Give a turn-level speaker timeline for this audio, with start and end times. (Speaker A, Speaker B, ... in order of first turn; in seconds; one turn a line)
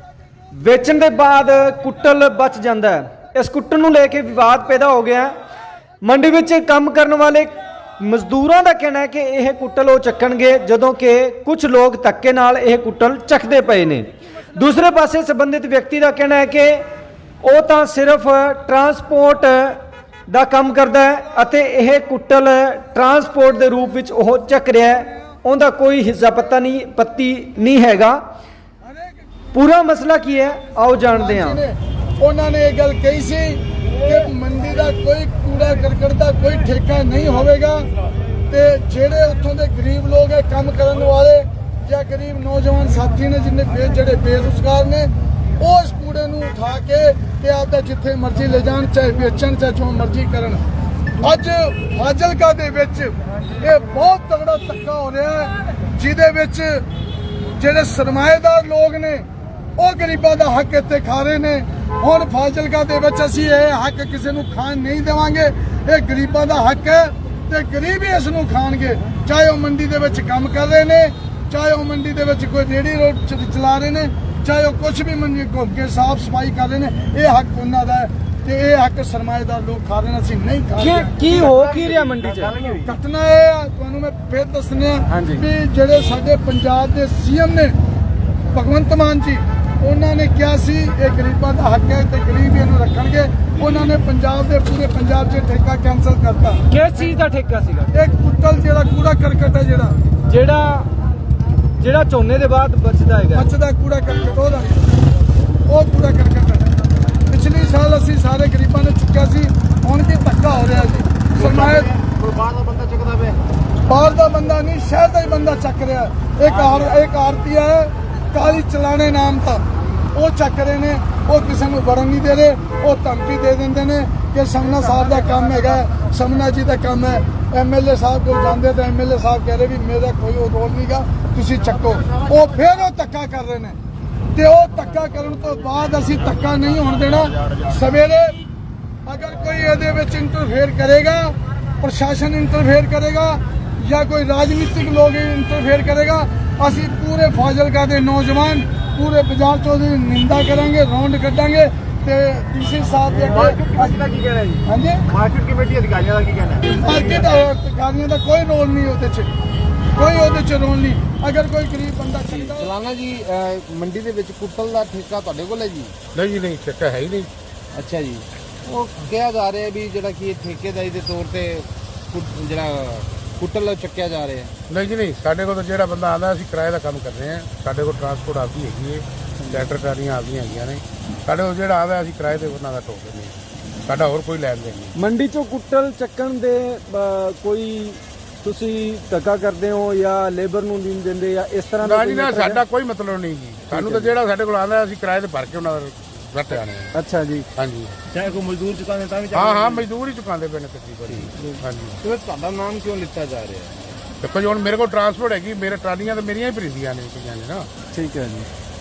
Speaker A: 0.5-5.3
Speaker A: 6.0-16.9
Speaker A: 17.4-28.2
Speaker A: 29.5-31.6
Speaker B: 31.1-37.9
Speaker B: 38.5-50.6
Speaker B: 51.2-56.9
Speaker B: 57.6-59.2
Speaker B: 59.8-81.5
Speaker A: 80.8-82.5
Speaker C: 81.4-82.9
Speaker B: 82.8-87.8
Speaker A: 85.1-85.5
Speaker B: 88.5-96.6
Speaker A: 96.7-98.0
Speaker B: 97.9-100.0
Speaker A: 100.3-100.9
Speaker A: 101.8-103.5
Speaker B: 103.3-104.9
Speaker B: 105.7-106.7
Speaker B: 107.3-111.9
Speaker C: 111.3-113.4
Speaker B: 113.9-133.8
Speaker C: 116.5-117.0
Speaker B: 134.3-138.4
Speaker B: 139.1-153.9
Speaker C: 153.1-157.3
Speaker B: 154.7-155.0
Speaker B: 156.6-159.3
Speaker B: 159.9-162.7
Speaker C: 162.3-165.9
Speaker D: 166.1-167.3
Speaker C: 167.7-174.5
Speaker D: 174.7-184.9
Speaker A: 179.4-179.7
Speaker A: 185.0-192.6
Speaker D: 191.8-196.9
Speaker A: 193.7-194.1
Speaker A: 196.9-197.4
Speaker D: 197.6-198.0
Speaker C: 198.1-199.8
Speaker D: 199.3-202.0
Speaker C: 202.0-203.9
Speaker D: 204.2-207.7
Speaker A: 207.9-208.5